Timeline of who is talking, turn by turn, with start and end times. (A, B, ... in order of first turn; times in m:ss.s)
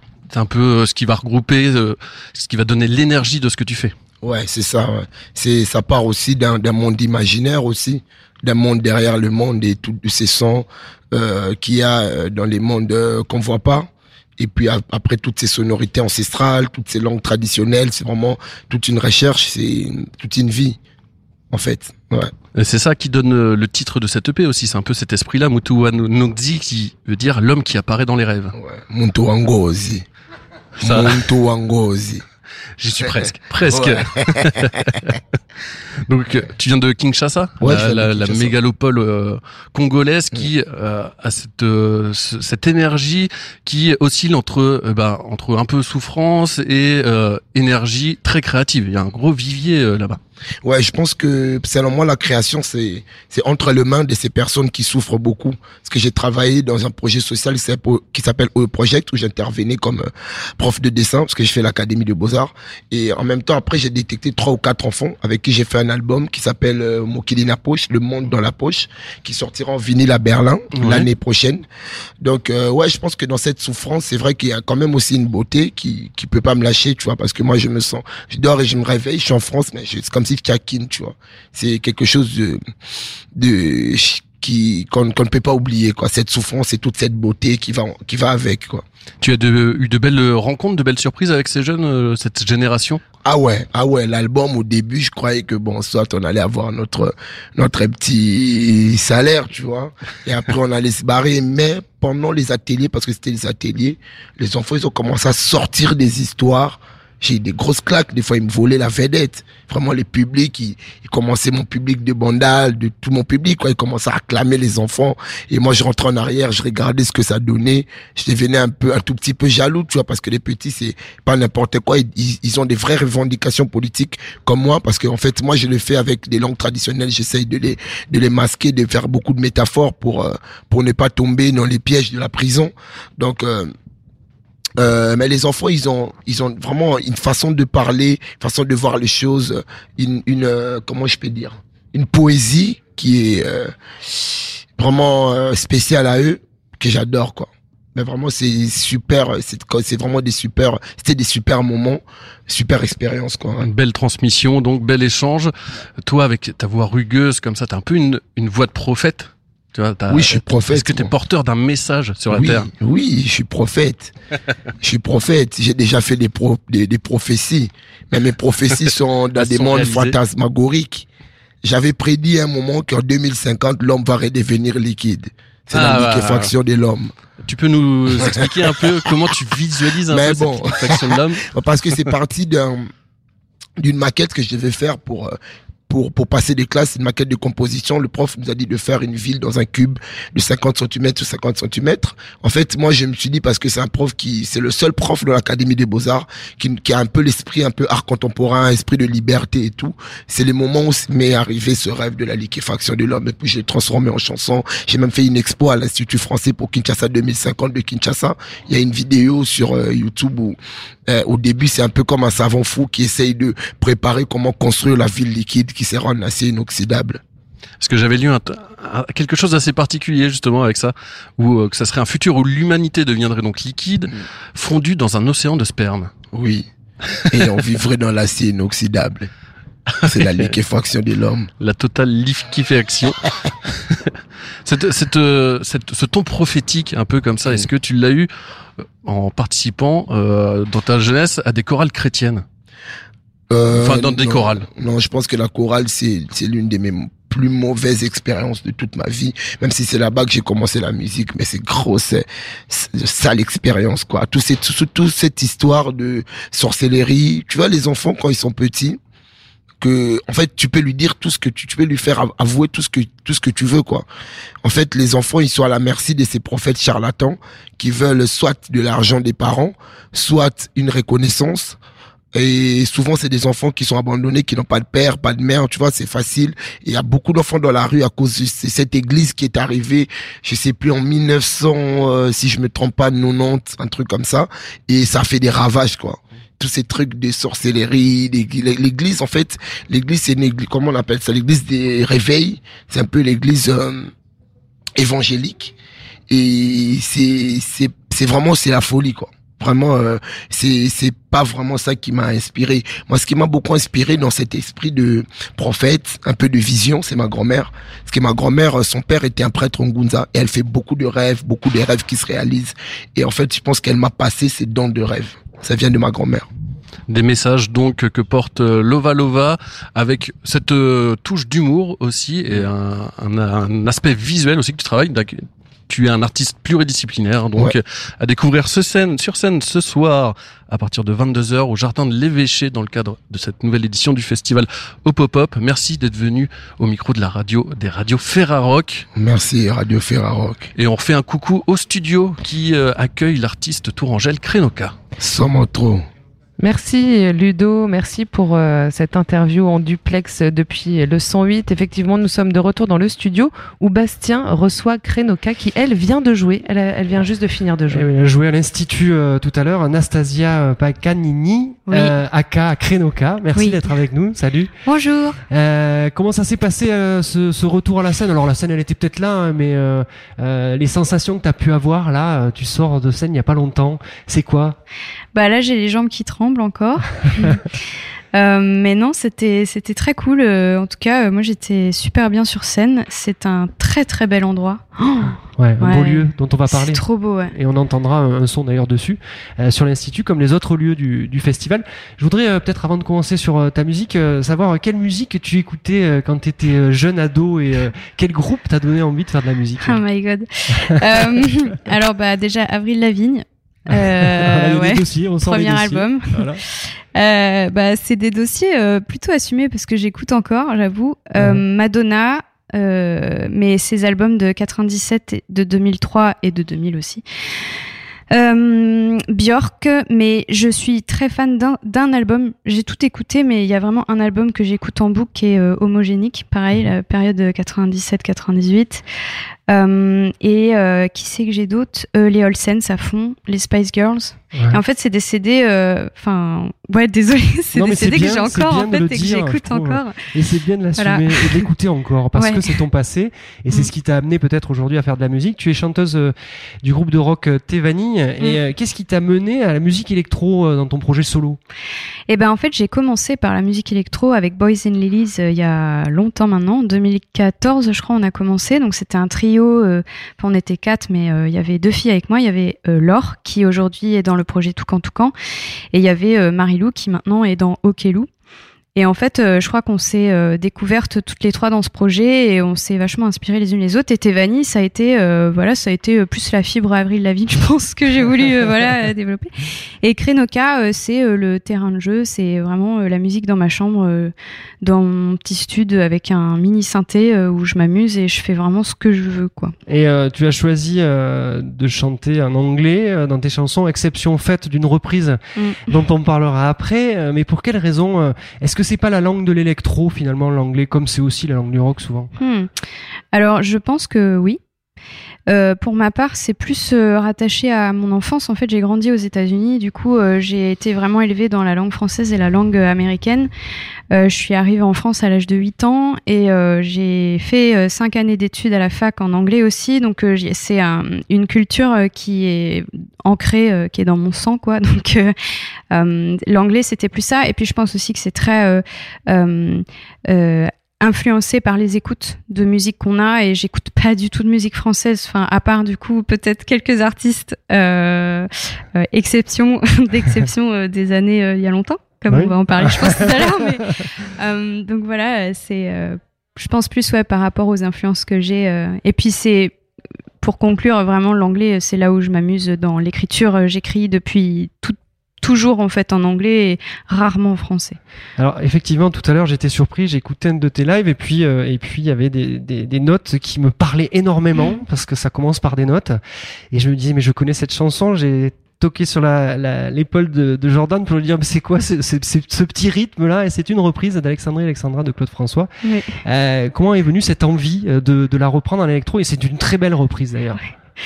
0:00.3-0:03.9 A
0:04.2-0:20.8 B
0:21.5-0:22.3 B
0:22.6-0:28.5 A
0:28.5-0:30.0 B
0:30.8-0:32.2 B
0:30.8-0:31.3 A
0:32.8-0:35.1 A
0:33.6-0:34.4 B
0:36.0-0:50.2 A
0:37.6-0:38.6 B
0:50.6-1:11.6 B
1:10.7-1:11.1 A
1:12.2-1:22.6 B
1:23.3-1:28.8 B
1:29.2-1:33.0 A
1:33.2-2:13.7 B
2:14.8-2:23.7 B
2:24.8-2:33.7 B
2:33.6-2:35.5 A
2:36.0-2:42.7 A
2:40.1-2:41.1 B
2:42.3-2:44.1 B
2:44.8-2:51.0 B
2:49.4-2:50.2 A
2:51.6-2:57.1 B
2:55.7-2:56.5 A
2:57.4-3:01.4 A
2:58.2-2:58.7 B
3:00.1-3:02.9 B
3:03.8-3:05.4 B
3:05.9-3:37.2 B
3:37.8-3:46.2 A
3:46.3-3:46.7 B
3:47.3-3:49.3 B
3:50.0-3:51.5 B
3:50.2-3:50.5 A
3:51.6-3:53.2 A
3:54.6-3:58.3 A
3:58.8-4:02.4 A
4:03.5-4:19.0 B
4:03.7-4:04.7 A
4:19.8-4:24.0 B
4:24.6-4:31.8 B
4:32.3-4:54.1 B
4:55.0-4:55.7 B
4:56.3-5:16.4 B
5:17.1-5:39.0 A
5:39.1-5:40.7 B
5:40.7-5:45.0 A
5:45.2-5:46.0 B
5:46.6-5:58.0 C
5:57.9-6:04.8 D
6:01.9-6:02.2 E
6:03.5-6:03.9 E
6:04.8-6:05.4 E
6:05.5-6:14.8 D
6:15.3-6:17.6 E
6:18.3-6:27.5 E
6:25.5-6:40.0 D
6:39.8-6:57.2 E
6:40.8-6:41.5 D
6:43.9-6:46.6 D
6:51.4-6:51.6 D
6:58.3-7:09.0 E
7:09.7-7:20.2 E
7:14.5-7:14.8 D
7:17.7-7:31.6 D
7:21.0-7:21.7 E
7:22.3-7:22.8 E
7:32.3-7:45.3 E
7:45.9-7:48.3 E
7:48.9-7:59.5 E
8:00.0-8:09.7 E
8:09.9-8:22.3 D
8:22.4-8:22.7 E
8:23.3-8:24.6 E
8:25.5-8:33.5 E
8:34.1-8:45.3 E
8:45.9-9:09.7 E
9:02.3-9:03.8 D
9:10.4-9:18.0 E
9:18.4-9:26.2 D
9:26.7-9:35.7 D
9:35.8-9:36.1 E
9:36.2-9:40.6 D